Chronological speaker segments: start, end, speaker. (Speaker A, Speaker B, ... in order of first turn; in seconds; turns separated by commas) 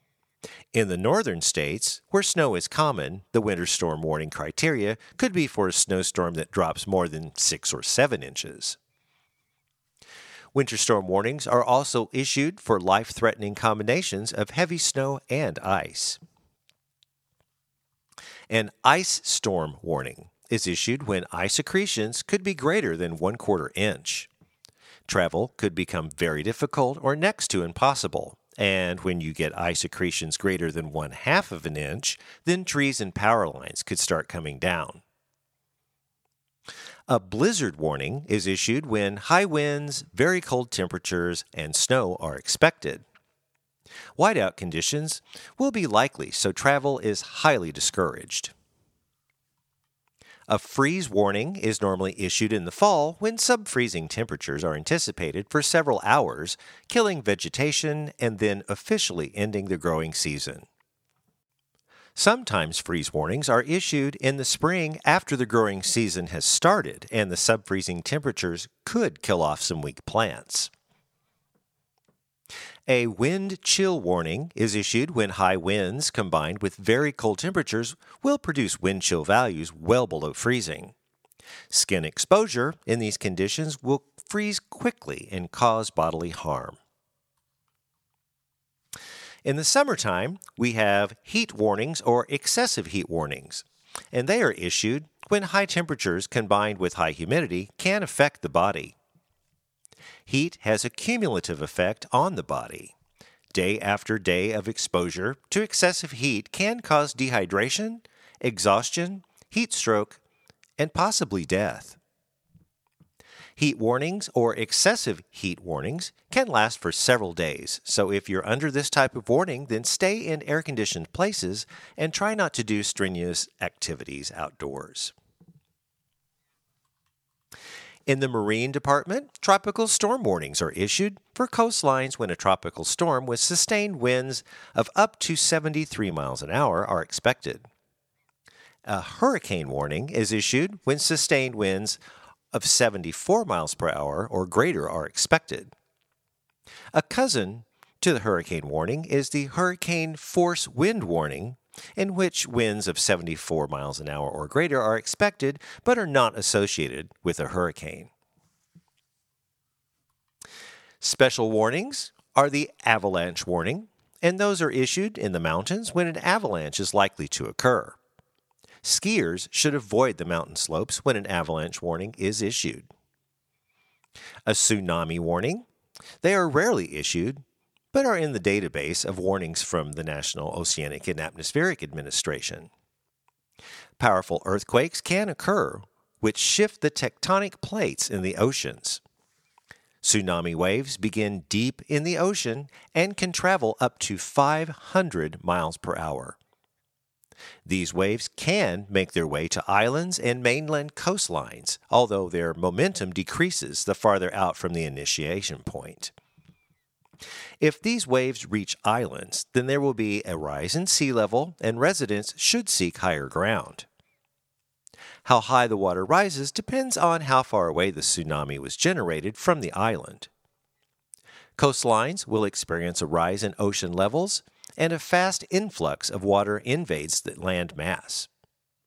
Speaker A: 0.7-8.8, Speaker A: 10.5-16.2, Speaker A: 18.5-24.3, Speaker A: 25.1-35.0, Speaker A: 37.1-43.0, Speaker A: 44.2-48.5, Speaker A: 50.5-60.6, Speaker A: 62.1-70.7, Speaker A: 72.9-80.9, Speaker A: 81.7-86.8, Speaker A: 89.4-98.9, Speaker A: 100.3-102.9, Speaker A: 103.5-110.2, Speaker A: 110.8-112.0, Speaker A: 113.5-125.1, Speaker A: 128.1-137.6, Speaker A: 138.9-142.0, Speaker A: 142.5-145.7, Speaker A: 146.9-158.1, Speaker A: 161.0-168.0, Speaker A: 168.8-172.9, Speaker A: 174.4-175.7, Speaker A: 176.2-182.7, Speaker A: 184.0-189.0, Speaker A: 190.0-196.4, Speaker A: 197.6-206.1, Speaker A: 207.6-213.9, Speaker A: 215.2-220.3, Speaker A: 221.6-228.3